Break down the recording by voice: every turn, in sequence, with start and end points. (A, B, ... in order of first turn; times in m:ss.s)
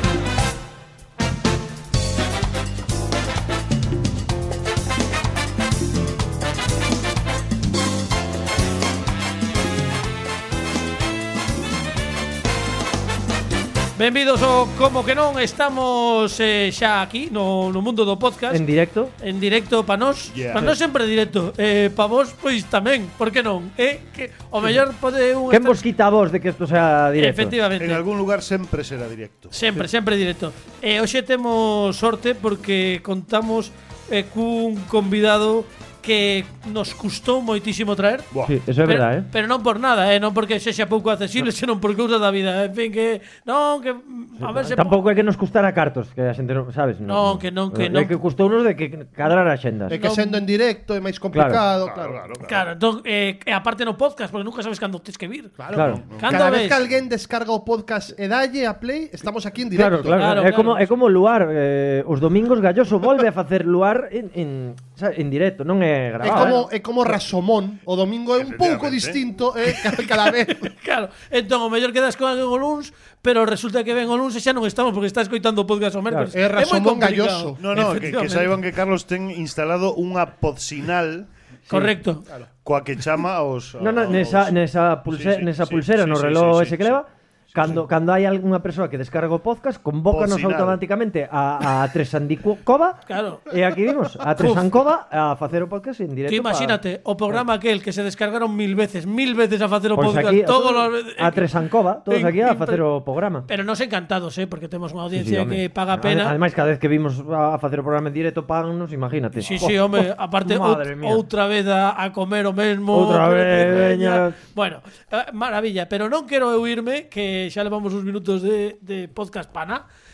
0:14.0-0:18.6 A
0:18.5-0:19.1 B
0:19.2-0:25.8 A
0:20.3-0:20.7 C
0:25.5-0:27.6 B
0:27.2-0:28.0 A
0:27.8-0:29.5 C
0:29.5-0:45.0 A
0:38.4-0:39.3 B
0:44.4-0:50.0 B
0:47.0-0:48.1 A
0:49.9-0:52.2 D
0:50.0-0:50.4 A
0:51.3-0:51.6 B
0:51.8-0:52.7 C
0:52.4-0:55.6 A
0:55.6-0:57.0 C
0:55.7-0:56.0 B
0:56.2-0:56.8 A
0:56.2-1:00.2 D
0:59.7-1:06.6 B
1:00.1-1:00.9 A
1:06.2-1:10.7 D
1:06.2-1:06.7 A
1:08.4-1:09.2 C
1:10.5-1:18.6 A
1:16.3-1:17.6 D
1:17.6-1:21.3 C
1:21.7-1:22.3 A
1:22.6-1:27.0 C
1:23.8-1:36.8 B
1:27.5-1:27.8 C
1:30.1-1:30.8 C
1:33.1-1:33.6 A
1:34.4-1:34.7 A
1:36.3-1:41.5 A
1:39.9-1:43.5 B
1:42.0-1:42.8 A
1:43.5-1:46.4 A
1:45.1-1:51.2 B
1:49.4-1:59.8 A
1:52.9-1:54.4 B